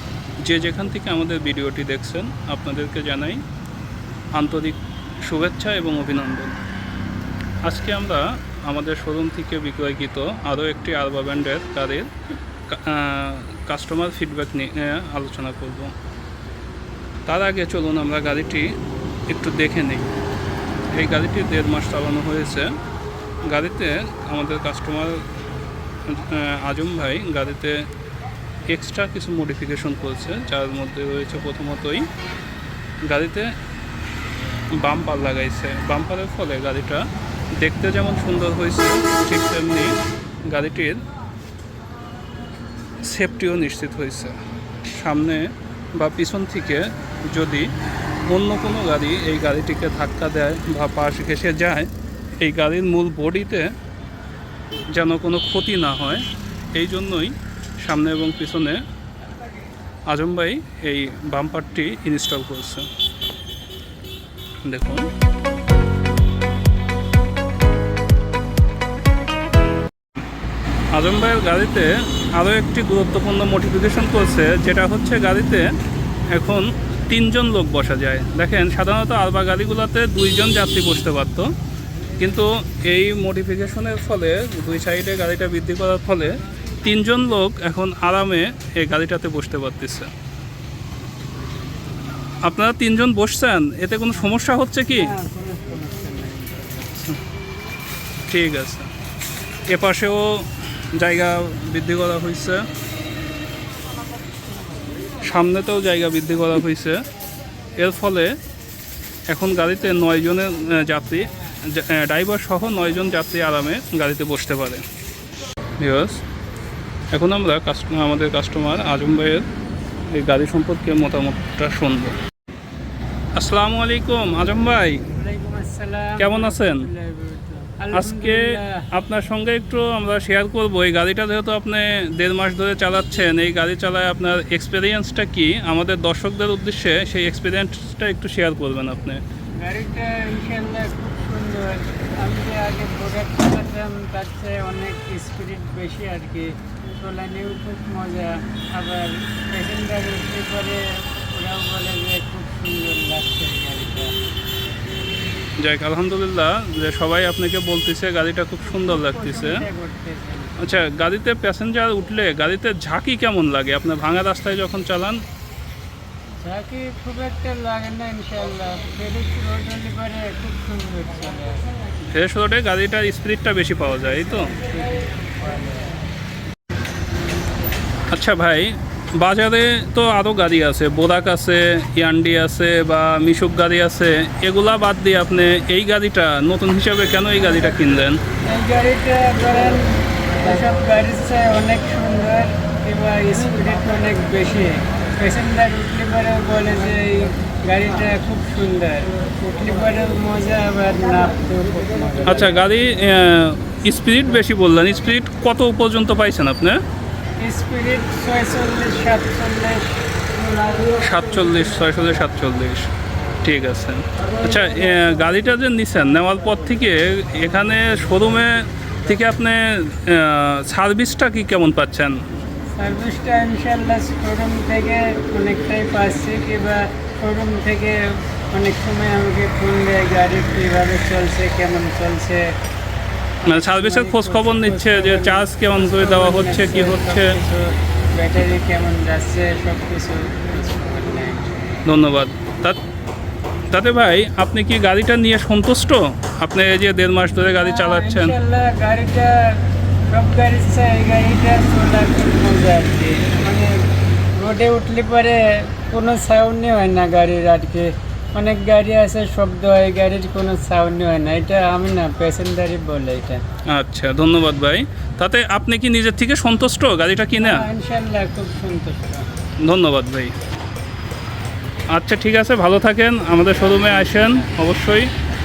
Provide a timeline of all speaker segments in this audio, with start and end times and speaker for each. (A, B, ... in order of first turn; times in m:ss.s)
0:00.4-0:03.4 A
0:04.3-0:06.6 A
0:07.6-0:12.1 A
0:12.7-0:15.9 A
0:17.3-0:20.1 A
0:20.9-0:22.8 A
0:23.4-0:25.3 A
0:26.0-0:27.9 A
0:28.7-0:32.1 A
0:33.0-0:33.5 A
0:34.7-0:41.0 A
0:43.0-0:47.7 A
0:48.3-0:51.9 A
0:52.4-0:53.7 A
0:54.9-0:58.8 A
1:00.1-1:02.9 A
1:04.6-1:05.1 A
1:10.9-1:15.7 A
1:16.3-1:21.5 A
1:22.2-1:30.1 A
1:32.4-1:35.1 A
1:34.9-1:37.0 B
1:38.3-1:38.9 A
1:39.7-1:42.6 A
1:45.2-1:47.0 A
1:47.8-1:48.4 A
1:49.3-1:54.8 A
1:55.8-1:56.2 A
1:57.1-1:59.5 A
2:00.1-2:02.2 A
2:03.3-2:05.0 A
2:05.1-2:08.9 B
2:06.2-2:06.9 A
2:07.9-2:19.2 A
2:19.6-2:34.1 B
2:35.6-2:39.6 A
2:38.6-2:40.6 B
2:40.6-2:45.2 A
2:46.4-2:51.6 B
2:52.1-2:54.5 A
2:54.5-2:55.9 B
2:58.1-3:08.2 A
3:08.4-3:22.6 B
3:22.2-3:26.8 A
3:27.4-3:30.0 B
3:31.0-3:32.9 A
3:33.4-3:42.2 A
3:42.8-3:52.5 B
3:53.5-3:57.4 A
3:53.5-4:01.7 B
4:01.8-4:02.8 A
4:03.7-4:08.4 A
4:07.5-4:13.7 B
4:14.4-4:23.4 B
4:23.7-4:27.7 A
4:27.4-4:29.3 B
4:29.6-4:30.3 A
4:31.9-4:35.1 A